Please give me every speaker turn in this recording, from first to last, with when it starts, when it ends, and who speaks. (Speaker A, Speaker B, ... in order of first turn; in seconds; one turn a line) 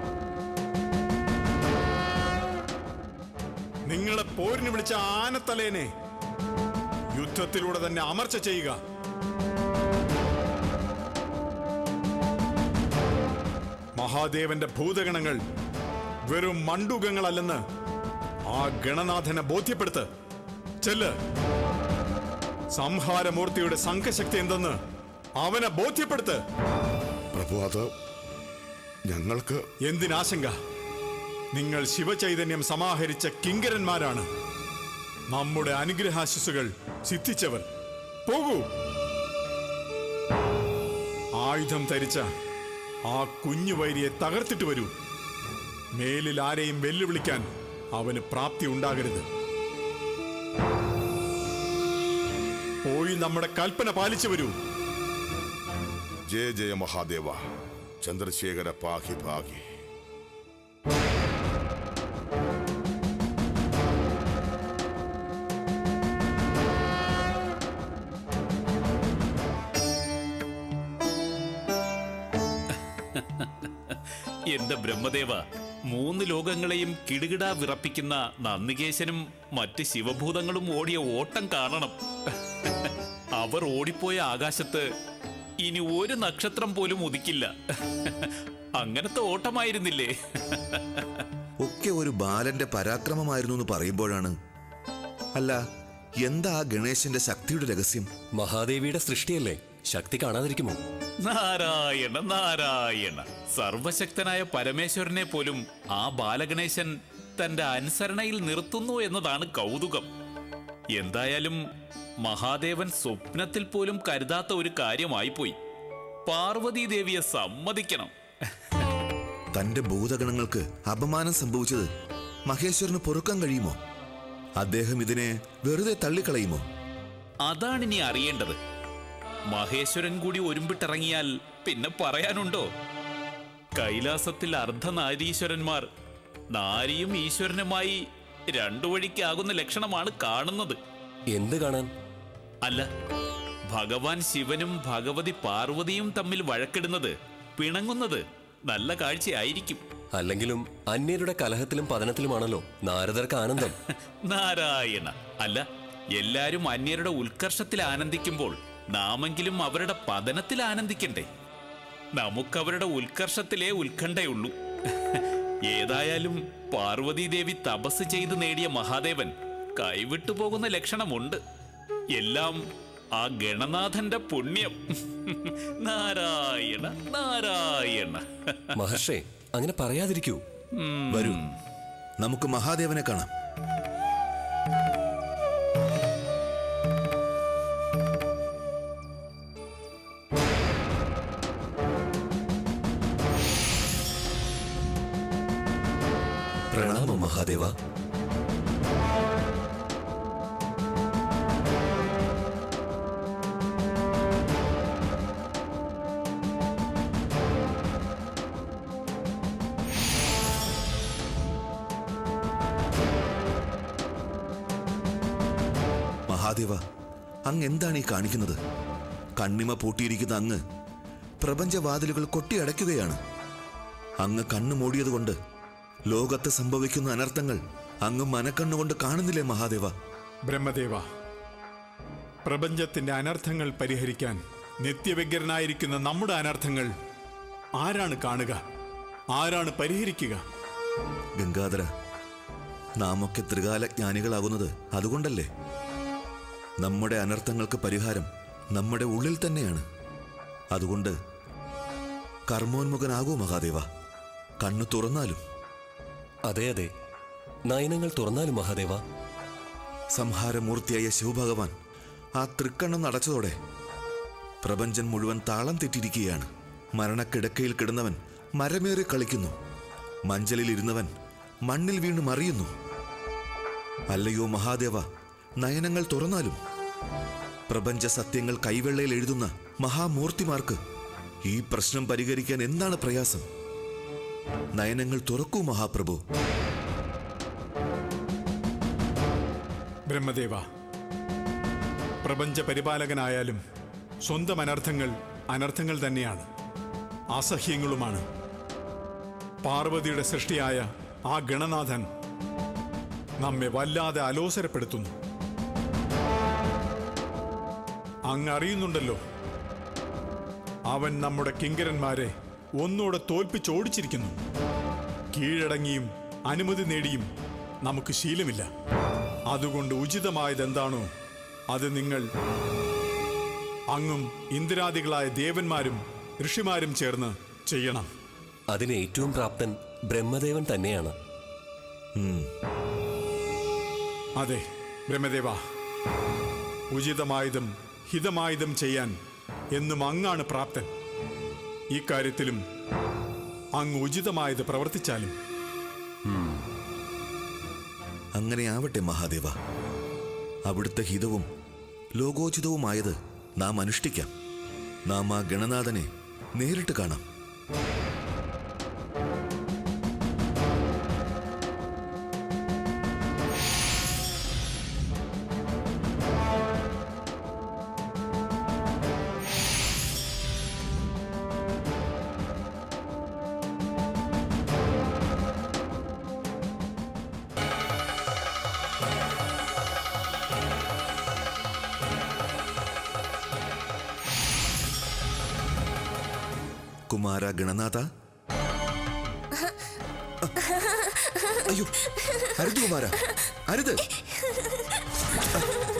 Speaker A: 3.9-5.9
Speaker A: 7.1-8.8
Speaker A: 13.9-15.4
Speaker A: 16.3-17.6
Speaker A: 18.5-20.1
Speaker A: 20.8-21.1
Speaker A: 22.7-24.8
Speaker A: 25.4-26.4
Speaker B: 27.3-27.9
Speaker B: 29.1-29.6
Speaker A: 29.8-30.6
Speaker A: 31.5-34.3
Speaker A: 35.3-37.6
Speaker A: 38.2-38.6
Speaker A: 41.4-42.3
Speaker A: 43.0-44.9
Speaker A: 45.9-49.2
Speaker A: 52.8-54.5
Speaker B: 56.3-57.4
Speaker B: 58.0-59.6
Speaker C: 73.1-82.0
Speaker C: 82.6-84.9
Speaker C: 85.6-91.2
Speaker D: 91.6-94.3
Speaker D: 95.3-95.6
Speaker D: 96.2-98.1
Speaker E: 98.3-100.8
Speaker C: 101.2-110.1
Speaker C: 111.0-111.6
Speaker C: 112.2-115.5
Speaker C: 116.3-118.1
Speaker D: 119.5-121.9
Speaker D: 122.5-123.8
Speaker D: 124.6-126.6
Speaker C: 127.5-128.6
Speaker C: 129.5-132.7
Speaker C: 133.8-135.9
Speaker C: 136.5-138.0
Speaker C: 138.5-140.8
Speaker E: 141.3-141.9
Speaker C: 143.7-149.8
Speaker E: 150.1-153.7
Speaker C: 153.7-155.6
Speaker C: 156.2-161.3
Speaker C: 162.2-164.5
Speaker C: 165.1-171.4
Speaker C: 172.2-172.6
Speaker C: 173.2-178.6
Speaker E: 178.8-180.4
Speaker C: 180.8-181.5
Speaker D: 181.1-181.4
Speaker D: 182.2-183.3
Speaker D: 196.7-197.8
Speaker D: 216.3-216.8
Speaker D: 217.5-218.6
Speaker D: 219.4-220.6
Speaker D: 221.4-223.2
Speaker D: 224.2-225.3
Speaker D: 226.1-229.9
Speaker A: 230.5-231.0
Speaker A: 232.4-236.9
Speaker A: 237.8-238.6
Speaker A: 239.3-240.4
Speaker D: 241.4-241.9
Speaker D: 243.0-245.5
Speaker D: 246.8-249.8
Speaker D: 250.7-251.1
Speaker D: 252.5-253.8
Speaker D: 254.6-255.4
Speaker E: 256.5-256.9
Speaker E: 257.7-259.0
Speaker D: 260.1-261.7
Speaker D: 262.4-263.5
Speaker D: 264.6-269.5
Speaker D: 270.3-271.1
Speaker D: 271.7-272.7
Speaker D: 274.1-275.0
Speaker D: 275.6-276.6
Speaker D: 277.7-280.8
Speaker D: 281.4-283.4
Speaker D: 284.8-286.2
Speaker A: 290.1-290.6
Speaker A: 292.2-293.6
Speaker A: 294.2-296.5
Speaker A: 297.3-298.2
Speaker A: 299.6-302.1
Speaker A: 303.4-305.1
Speaker A: 308.3-309.2
Speaker A: 310.9-314.4
Speaker A: 315.3-317.3
Speaker A: 317.8-318.7
Speaker A: 319.5-321.1
Speaker A: 321.7-322.3
Speaker A: 323.9-328.1
Speaker E: 328.7-331.1
Speaker D: 332.1-332.5
Speaker A: 334.4-335.6
Speaker A: 336.9-339.1
Speaker A: 339.7-340.9
Speaker A: 341.9-342.6
Speaker A: 343.8-345.3
Speaker D: 348.4-349.5
Speaker D: 350.6-351.5
Speaker D: 352.1-354.3
Speaker D: 355.1-357.2
Speaker D: 387.1-388.1
Speaker D: 391.6-394.0